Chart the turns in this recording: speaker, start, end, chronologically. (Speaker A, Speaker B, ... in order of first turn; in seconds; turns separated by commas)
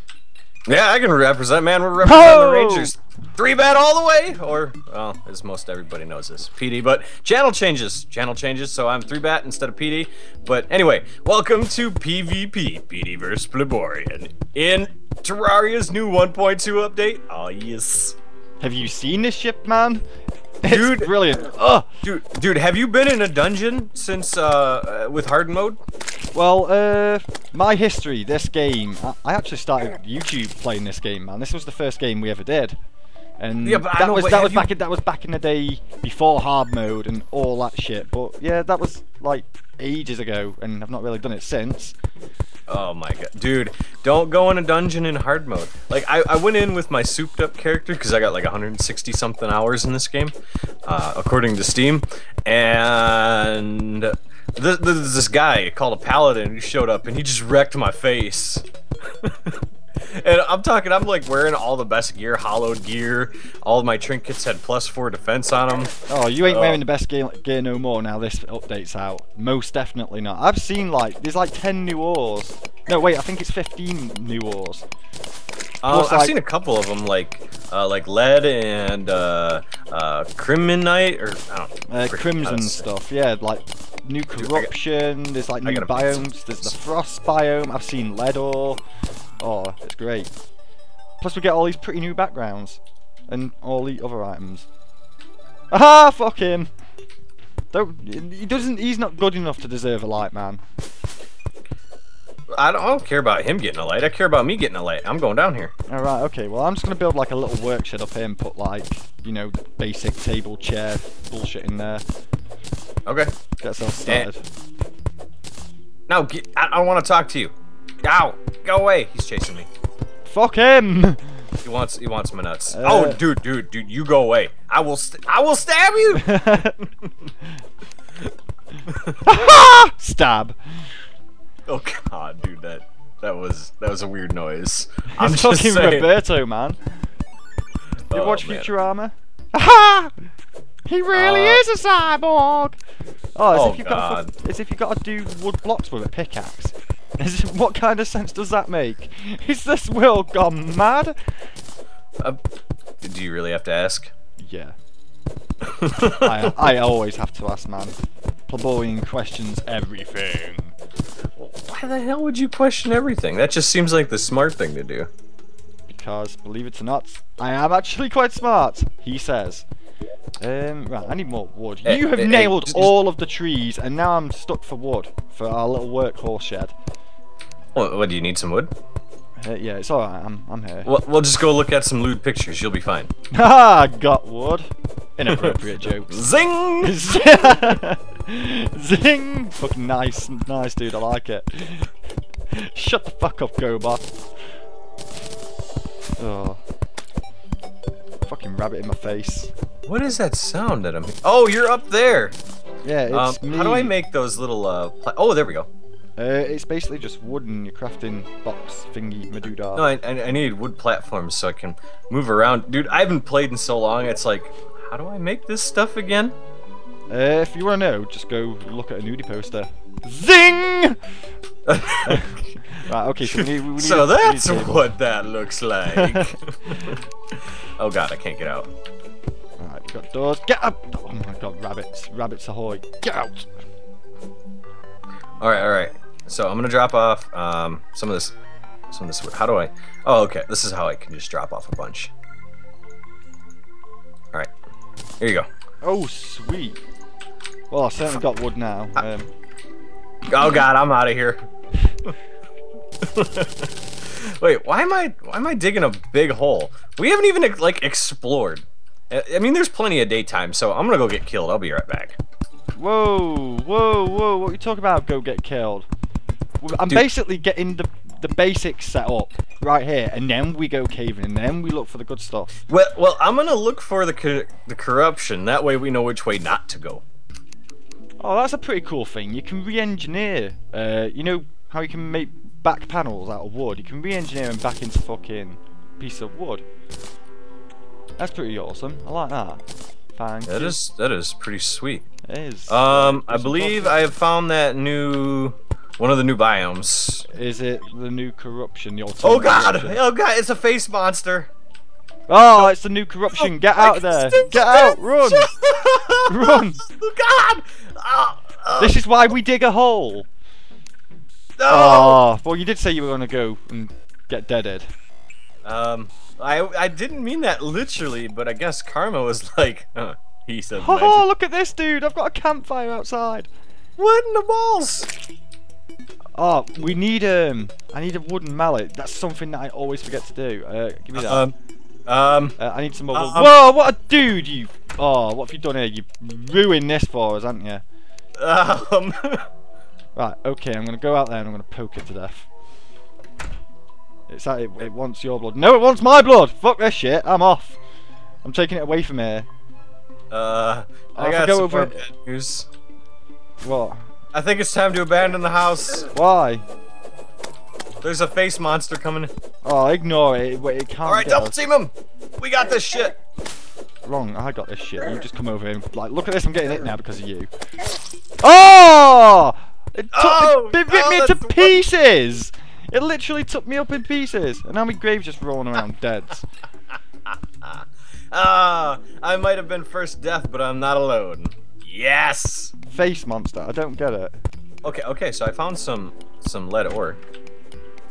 Speaker A: 0.7-18.2, Speaker B: 2.0-3.0, Speaker B: 18.6-20.0, Speaker B: 20.6-21.9, Speaker A: 20.7-21.1, Speaker A: 22.0-25.8, Speaker B: 26.3-32.8, Speaker B: 33.4-42.0, Speaker A: 33.6-34.7, Speaker A: 42.7-66.8, Speaker B: 66.1-74.8, Speaker A: 75.8-82.8, Speaker B: 75.9-76.3, Speaker B: 81.9-88.8, Speaker A: 84.3-84.7, Speaker A: 85.6-86.7, Speaker B: 89.4-90.3, Speaker B: 91.2-94.7, Speaker B: 95.7-96.7, Speaker B: 97.7-100.6, Speaker A: 102.5-105.7, Speaker B: 105.9-112.0, Speaker A: 113.0-113.3, Speaker B: 113.6-114.4, Speaker A: 116.1-119.7, Speaker B: 120.3-121.4, Speaker A: 121.6-126.6, Speaker B: 122.7-123.2, Speaker B: 126.1-126.9, Speaker A: 128.9-129.5, Speaker B: 129.2-130.8, Speaker A: 131.7-136.1, Speaker B: 135.1-136.9, Speaker A: 138.1-138.7, Speaker B: 138.1-140.3, Speaker B: 140.8-142.8, Speaker A: 141.1-141.6, Speaker B: 143.3-151.1, Speaker A: 143.5-144.3, Speaker A: 153.0-154.1, Speaker B: 154.4-154.7, Speaker A: 155.6-156.6, Speaker B: 156.1-158.0, Speaker B: 158.5-160.7, Speaker A: 161.4-165.1, Speaker B: 165.9-169.6, Speaker B: 170.4-176.7, Speaker A: 171.8-172.9, Speaker A: 177.7-178.7, Speaker B: 179.4-180.9, Speaker A: 180.8-183.1, Speaker B: 183.3-186.3, Speaker A: 185.3-187.7, Speaker B: 186.8-191.9, Speaker B: 192.5-194.1, Speaker B: 196.2-196.6, Speaker B: 198.2-199.5, Speaker A: 199.8-202.4, Speaker B: 202.8-203.9, Speaker A: 203.1-205.7, Speaker B: 206.2-209.9, Speaker A: 209.7-216.3, Speaker B: 217.1-221.0, Speaker A: 221.7-222.3, Speaker B: 221.8-224.8, Speaker A: 223.2-228.7, Speaker B: 225.9-227.0, Speaker B: 229.6-233.5, Speaker A: 235.4-238.3, Speaker A: 238.9-242.1, Speaker A: 245.2-245.5, Speaker B: 245.8-246.8, Speaker B: 247.7-249.3, Speaker A: 250.2-251.4, Speaker A: 253.0-262.2, Speaker B: 262.8-265.9, Speaker B: 266.6-272.6, Speaker A: 272.7-277.0, Speaker B: 278.2-286.6, Speaker B: 288.2-289.6, Speaker B: 290.1-290.8, Speaker A: 290.4-292.1, Speaker B: 292.2-294.1, Speaker A: 292.7-297.2, Speaker B: 297.3-300.0, Speaker A: 299.2-301.5, Speaker B: 302.3-305.5, Speaker A: 303.3-309.0, Speaker B: 306.3-306.8, Speaker B: 308.8-310.3, Speaker A: 311.6-312.2, Speaker B: 311.6-314.9, Speaker A: 315.6-321.2, Speaker B: 320.8-323.5, Speaker A: 324.0-325.1, Speaker B: 326.4-331.4, Speaker A: 331.1-331.5, Speaker A: 332.1-332.6, Speaker B: 332.6-337.8, Speaker A: 333.1-333.5, Speaker A: 338.4-339.4, Speaker B: 340.1-342.5, Speaker B: 344.3-347.8, Speaker B: 348.4-349.5, Speaker A: 350.3-352.7, Speaker B: 351.1-352.1, Speaker B: 353.6-354.1, Speaker A: 354.3-356.1, Speaker B: 356.1-356.6, Speaker A: 358.0-359.3, Speaker B: 359.6-361.6, Speaker A: 361.0-363.2, Speaker B: 364.0-367.5, Speaker B: 368.4-376.4, Speaker A: 370.1-371.7, Speaker A: 377.3-382.7, Speaker B: 382.9-384.4, Speaker A: 384.8-387.2